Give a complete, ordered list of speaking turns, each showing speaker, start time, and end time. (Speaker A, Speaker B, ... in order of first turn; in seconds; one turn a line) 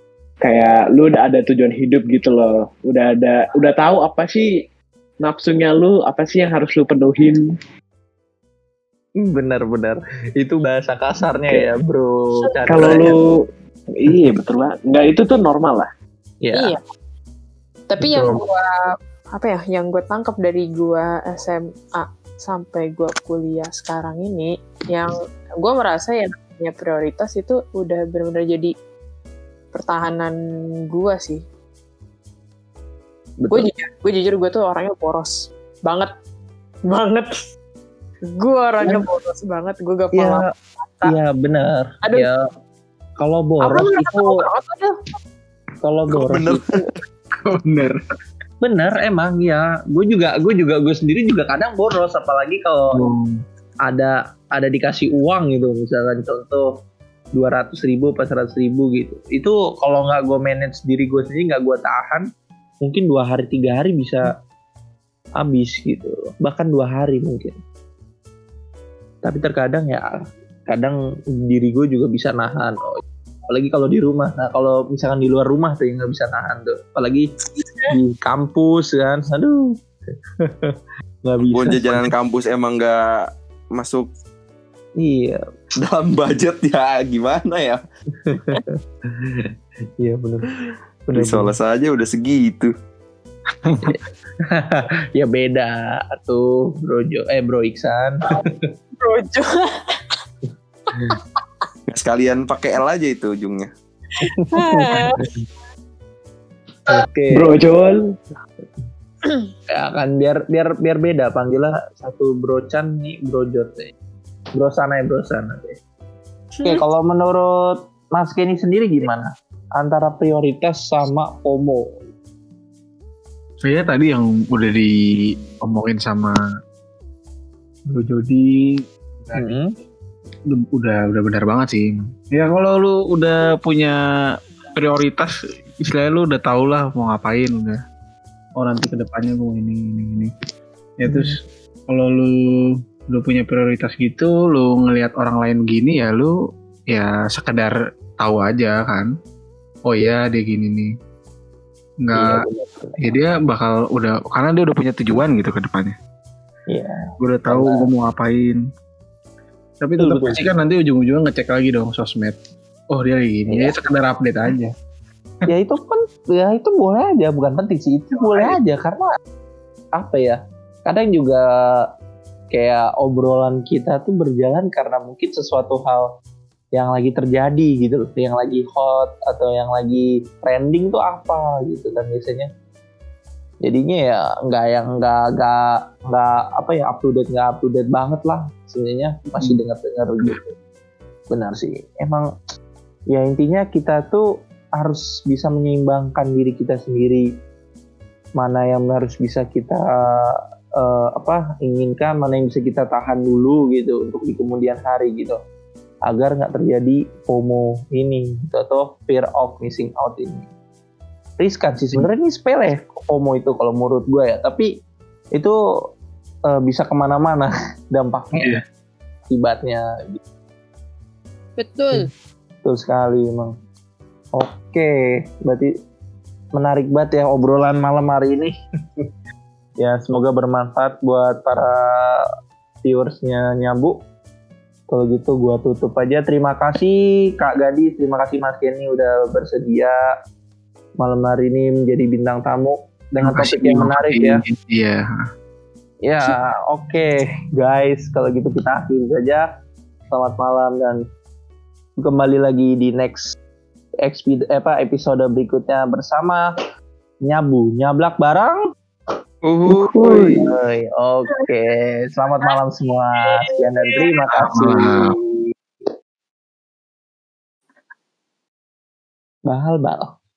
Speaker A: 0.4-4.5
Speaker A: 5.2-7.5
Speaker B: 9.2-13.2
Speaker A: 12.7-13.3
Speaker A: 14.0-15.9
Speaker B: 16.4-16.7
Speaker C: 16.5-16.8
Speaker C: 17.9-18.7
Speaker B: 18.0-18.4
Speaker C: 19.4-28.7
Speaker C: 29.7-30.4
Speaker C: 30.9-31.4
Speaker B: 33.4-33.7
Speaker C: 33.5-36.1
Speaker C: 36.9-37.3
Speaker C: 38.2-41.1
Speaker B: 40.2-40.4
Speaker B: 41.0-42.4
Speaker B: 43.2-44.4
Speaker C: 43.6-45.0
Speaker B: 45.8-46.6
Speaker D: 46.1-46.9
Speaker E: 47.4-48.0
Speaker B: 48.6-53.0
Speaker E: 52.9-53.4
Speaker B: 53.9-56.7
Speaker B: 57.3-62.3
Speaker B: 62.8-64.3
Speaker B: 65.4-67.6
Speaker B: 69.2-77.3
Speaker C: 77.6-77.9
Speaker B: 77.9-79.8
Speaker B: 80.4-82.1
Speaker D: 81.5-83.2
Speaker D: 83.8-84.1
Speaker B: 85.0-85.4
Speaker D: 85.8-87.8
Speaker B: 88.2-90.5
Speaker B: 91.1-91.5
Speaker D: 91.2-92.7
Speaker E: 93.7-93.9
Speaker B: 93.9-98.6
Speaker C: 99.0-100.0
Speaker D: 101.9-103.7
Speaker B: 104.2-105.4
Speaker C: 104.5-105.2
Speaker B: 106.9-107.5
Speaker A: 107.3-108.0
Speaker C: 109.2-109.5
Speaker B: 109.7-113.9
Speaker B: 114.6-115.8
Speaker C: 116.6-116.8
Speaker B: 116.6-122.0
Speaker E: 123.6-126.4
Speaker E: 127.9-128.6
Speaker B: 129.3-129.7
Speaker E: 130.5-134.0
Speaker E: 134.8-137.8
Speaker E: 138.6-140.3
Speaker E: 141.0-142.3
Speaker B: 141.1-141.4
Speaker E: 143.1-146.3
Speaker E: 146.9-149.1
Speaker E: 149.9-150.9
Speaker E: 152.0-152.4
Speaker B: 152.2-153.2
Speaker E: 153.0-155.9
Speaker B: 156.7-157.9
Speaker E: 157.2-158.6
Speaker E: 159.8-162.4
Speaker B: 160.0-160.5
Speaker E: 162.9-164.7
Speaker B: 163.5-163.8
Speaker B: 165.5-169.1
Speaker B: 170.0-171.9
Speaker B: 172.5-176.1
Speaker B: 176.8-182.5
Speaker B: 183.6-190.5
Speaker B: 191.3-192.3
Speaker B: 193.1-194.3
Speaker B: 194.8-197.3
Speaker B: 198.4-205.4
Speaker B: 206.1-210.5
Speaker B: 211.4-214.7
Speaker B: 216.5-218.6
Speaker B: 219.3-220.2
Speaker C: 221.6-222.1
Speaker B: 222.6-223.5
Speaker B: 224.3-225.7
Speaker B: 226.6-228.5
Speaker B: 229.8-232.3
Speaker B: 232.8-234.0
Speaker B: 234.9-239.9
Speaker B: 241.0-244.4
Speaker E: 243.2-245.0
Speaker B: 246.1-249.4
Speaker B: 250.1-251.0
Speaker B: 252.0-253.4
Speaker B: 254.0-256.4
Speaker B: 257.2-258.6
Speaker D: 259.5-260.4
Speaker A: 259.7-260.5
Speaker B: 260.4-265.5
Speaker C: 263.2-264.0
Speaker E: 264.4-265.1
Speaker B: 269.5-270.1